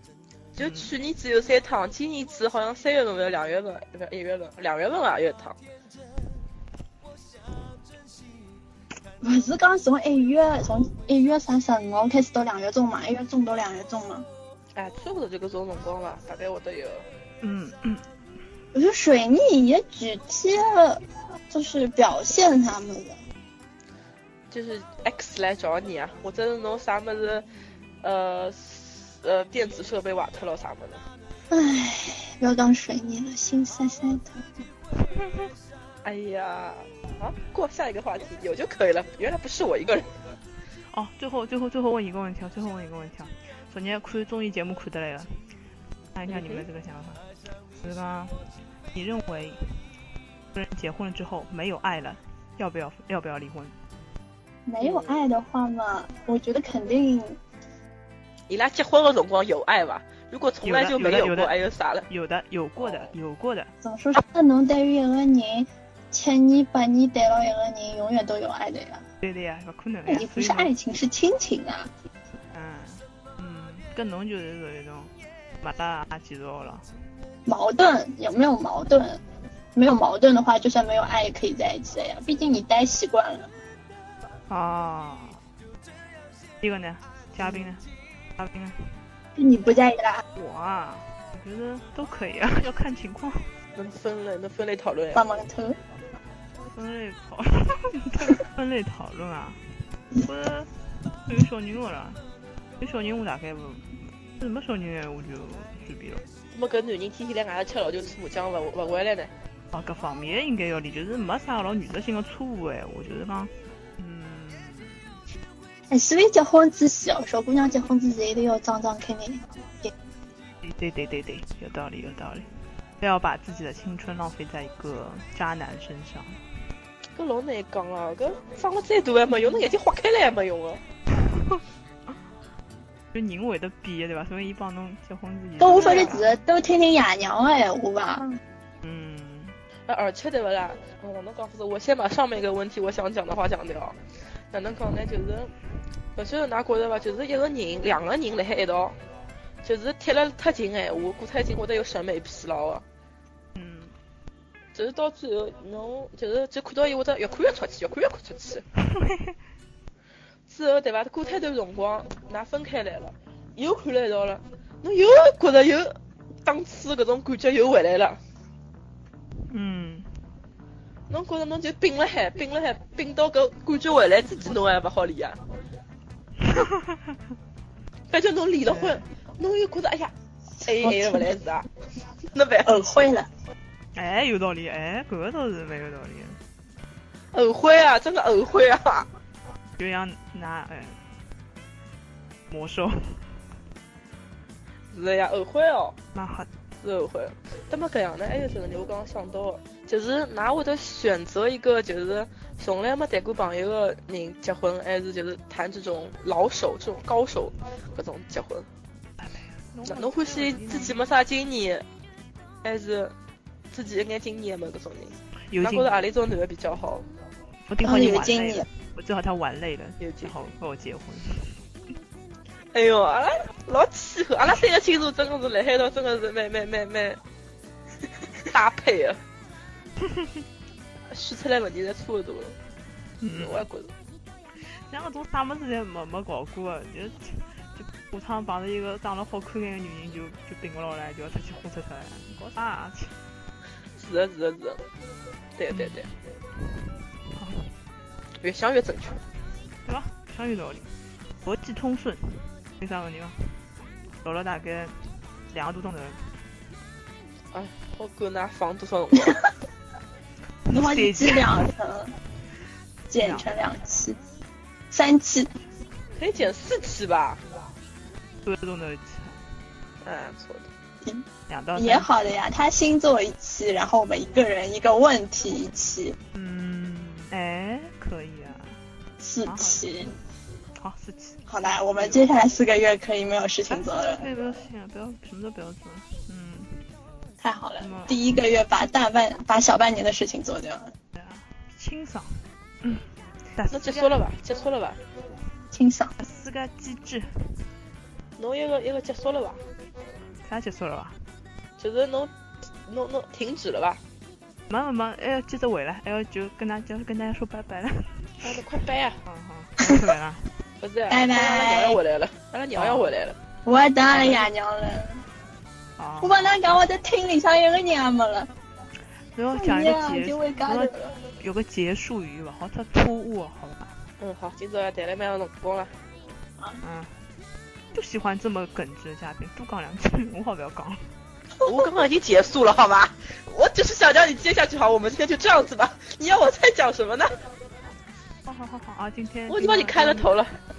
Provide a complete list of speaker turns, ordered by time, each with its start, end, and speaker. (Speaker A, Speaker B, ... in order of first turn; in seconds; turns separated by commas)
Speaker A: 0.6-5.6, Speaker B: 0.6-0.9, Speaker C: 9.2-14.3, Speaker A: 14.8-17.1, Speaker B: 17.4-18.1, Speaker C: 18.7-23.2, Speaker A: 24.5-27.5, Speaker A: 28.0-31.0, Speaker C: 31.5-34.5, Speaker A: 36.0-40.1, Speaker B: 40.9-45.4, Speaker B: 46.1-47.3, Speaker A: 46.3-46.7, Speaker B: 47.8-49.9, Speaker B: 50.5-53.8, Speaker C: 54.7-57.4, Speaker A: 54.8-55.2, Speaker A: 58.5-62.1, Speaker B: 60.6-61.5, Speaker B: 62.1-63.7, Speaker A: 62.8-63.1, Speaker C: 63.8-69.0, Speaker B: 69.2-70.7, Speaker C: 70.1-71.9, Speaker B: 72.5-76.9, Speaker C: 77.5-79.2, Speaker C: 79.8-83.5, Speaker B: 84.5-85.4, Speaker B: 86.6-89.0, Speaker C: 89.4-90.2, Speaker B: 90.4-93.5, Speaker A: 93.8-95.3, Speaker C: 95.1-95.8, Speaker B: 96.7-99.6, Speaker B: 100.2-102.2, Speaker B: 102.8-106.2, Speaker A: 106.5-109.3, Speaker B: 109.7-115.2, Speaker C: 115.9-119.9, Speaker B: 120.6-122.5, Speaker B: 123.0-126.4, Speaker A: 127.2-130.8, Speaker B: 131.2-131.6, Speaker B: 133.1-136.3, Speaker C: 135.6-138.4, Speaker A: 135.7-136.2, Speaker B: 138.8-139.6, Speaker A: 139.9-144.0, Speaker A: 144.5-145.5, Speaker A: 146.2-149.0, Speaker A: 149.6-152.8, Speaker B: 153.6-154.0, Speaker A: 154.8-158.7, Speaker B: 158.8-159.4, Speaker A: 160.5-168.2, Speaker B: 169.5-170.2, Speaker A: 171.1-175.4, Speaker B: 176.4-177.1, Speaker A: 178.1-180.1, Speaker B: 178.7-179.1, Speaker A: 180.6-181.7, Speaker C: 180.8-181.4, Speaker A: 182.3-182.8, Speaker C: 182.7-183.3, Speaker B: 183.9-186.4, Speaker A: 187.3-189.1, Speaker B: 189.8-191.0, Speaker B: 192.5-193.4, Speaker A: 194.9-196.0, Speaker B: 196.1-196.5, Speaker A: 196.8-208.7, Speaker B: 209.2-211.0, Speaker A: 209.9-211.8, Speaker A: 212.6-213.1, Speaker A: 213.7-217.1, Speaker B: 215.5-216.0, Speaker B: 217.7-221.6, Speaker C: 217.8-218.7, Speaker A: 220.0-220.3, Speaker A: 222.7-227.2, Speaker A: 228.4-229.2, Speaker A: 231.1-232.6, Speaker B: 233.2-233.7, Speaker A: 233.3-233.9, Speaker B: 234.7-243.2, Speaker A: 244.0-244.8, Speaker A: 245.6-246.1, Speaker B: 245.7-246.1, Speaker B: 247.2-247.7, Speaker A: 248.4-249.2, Speaker B: 249.8-250.9, Speaker B: 251.4-253.6, Speaker B: 254.2-256.3, Speaker A: 257.5-259.4, Speaker B: 260.7-261.7, Speaker C: 260.7-262.1, Speaker C: 263.1-264.2, Speaker B: 263.2-263.6, Speaker C: 264.9-265.5, Speaker A: 266.1-267.4, Speaker B: 268.4-269.5, Speaker A: 270.0-270.7, Speaker C: 271.0-276.2, Speaker B: 271.5-272.1, Speaker B: 276.3-278.8, Speaker C: 279.2-280.2, Speaker B: 279.5-280.1, Speaker B: 280.8-282.3, Speaker C: 281.5-284.3, Speaker B: 283.7-286.9, Speaker C: 287.4-290.9, Speaker B: 287.8-288.2, Speaker B: 291.1-294.2, Speaker A: 293.7-295.0, Speaker C: 295.7-296.1, Speaker B: 296.2-297.6, Speaker A: 298.4-299.6, Speaker B: 300.4-301.2, Speaker A: 301.8-302.3, Speaker A: 302.9-304.0, Speaker B: 304.7-308.6, Speaker A: 308.4-309.2, Speaker B: 309.2-310.6, Speaker A: 310.8-313.4, Speaker C: 311.1-312.0, Speaker B: 312.8-313.1, Speaker C: 313.6-315.2, Speaker B: 316.0-316.8, Speaker C: 316.2-318.5, Speaker B: 319.4-324.0, Speaker C: 319.5-321.2, Speaker A: 324.2-325.9, Speaker B: 326.8-327.2, Speaker B: 327.9-331.1, Speaker A: 331.6-337.3, Speaker B: 338.4-340.3, Speaker A: 339.5-340.6